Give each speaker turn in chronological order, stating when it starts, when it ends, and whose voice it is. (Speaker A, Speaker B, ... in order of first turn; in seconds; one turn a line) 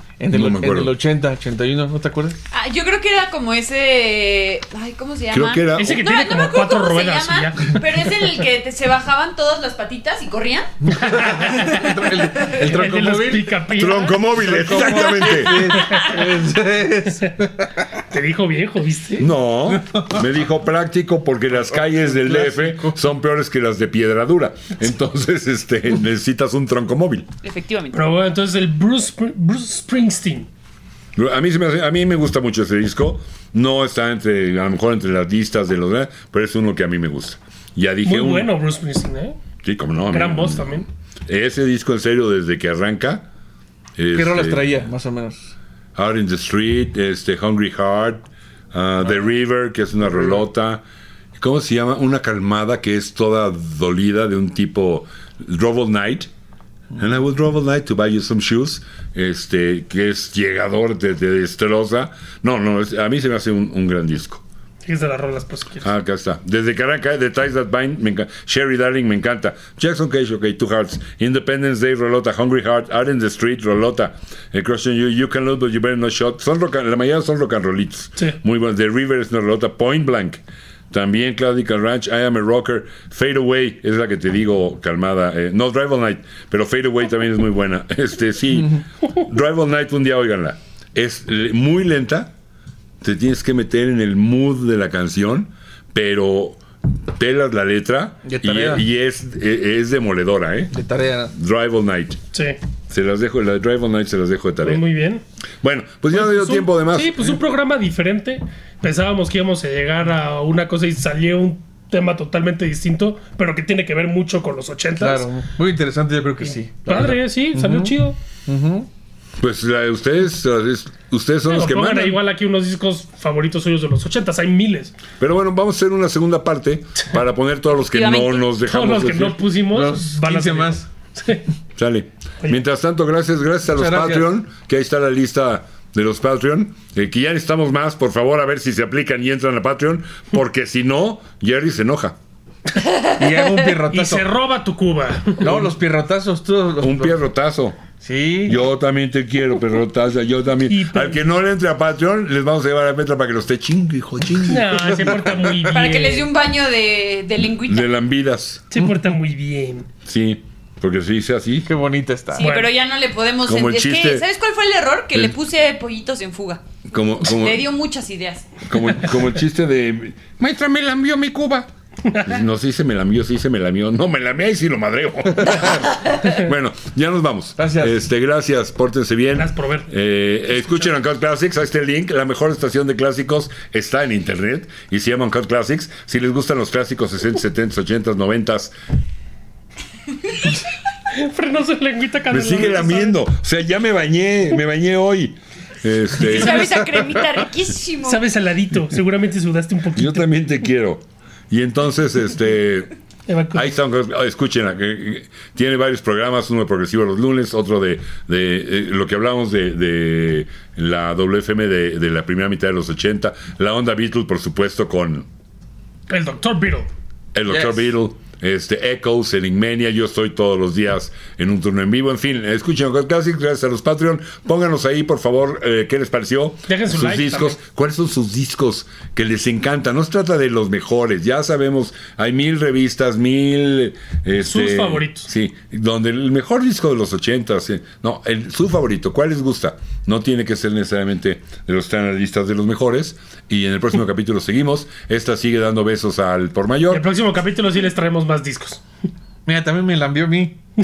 Speaker A: 0.2-2.4
Speaker B: 0.3-0.9
Speaker C: 2.5-12.7
Speaker B: 5.3-6.0
Speaker D: 5.8-7.8
Speaker A: 11.0-13.5
Speaker D: 11.0-14.6
Speaker B: 13.7-15.8
Speaker A: 14.4-17.7
Speaker C: 14.8-16.2
Speaker D: 18.1-19.3
Speaker B: 19.2-27.3
Speaker A: 19.8-20.1
Speaker A: 21.7-23.0
Speaker C: 27.4-28.0
Speaker D: 27.9-30.5
Speaker B: 31.2-38.5
Speaker D: 38.0-39.4
Speaker B: 39.6-43.2
Speaker D: 40.1-40.9
Speaker B: 44.0-44.7
Speaker A: 44.1-45.5
Speaker B: 46.0-50.8
Speaker B: 51.4-56.3
Speaker B: 57.0-64.4
Speaker D: 64.9-65.9
Speaker B: 65.8-92.3
Speaker A: 88.5-88.8
Speaker B: 93.0-96.6
Speaker B: 97.1-100.7
Speaker A: 98.2-98.8
Speaker A: 100.7-101.3
Speaker B: 101.3-102.2
Speaker D: 102.3-102.6
Speaker B: 102.9-104.8
Speaker D: 104.6-105.2
Speaker B: 105.6-107.3
Speaker D: 106.1-115.3
Speaker A: 115.0-118.9
Speaker D: 116.5-118.2
Speaker B: 119.4-122.2
Speaker D: 121.5-124.9
Speaker B: 125.2-129.4
Speaker C: 127.9-128.4
Speaker D: 128.7-131.4
Speaker A: 129.7-130.9
Speaker B: 131.8-142.2
Speaker A: 133.7-134.3
Speaker A: 143.2-144.3
Speaker D: 143.9-145.7
Speaker A: 145.4-147.2
Speaker B: 146.8-147.8
Speaker A: 148.0-148.7
Speaker B: 148.5-155.3
Speaker D: 150.7-151.2
Speaker D: 154.5-156.3
Speaker C: 155.7-157.9
Speaker B: 157.7-158.7
Speaker D: 158.7-159.9
Speaker B: 160.1-161.7
Speaker A: 161.7-162.5
Speaker C: 162.3-166.6
Speaker D: 162.4-162.7
Speaker B: 163.5-164.2
Speaker B: 166.9-167.7
Speaker C: 167.2-168.6
Speaker B: 168.7-188.7
Speaker A: 177.6-177.9
Speaker D: 179.3-179.9
Speaker D: 191.1-193.2
Speaker B: 192.3-197.0
Speaker C: 196.2-198.3
Speaker D: 198.1-200.3
Speaker B: 199.9-202.9
Speaker D: 203.3-203.7
Speaker B: 203.5-215.3
Speaker D: 216.1-216.9
Speaker B: 217.3-247.1
Speaker A: 217.5-217.8
Speaker D: 226.7-227.6
Speaker D: 234.4-235.3
Speaker D: 246.9-248.8
Speaker A: 249.5-250.6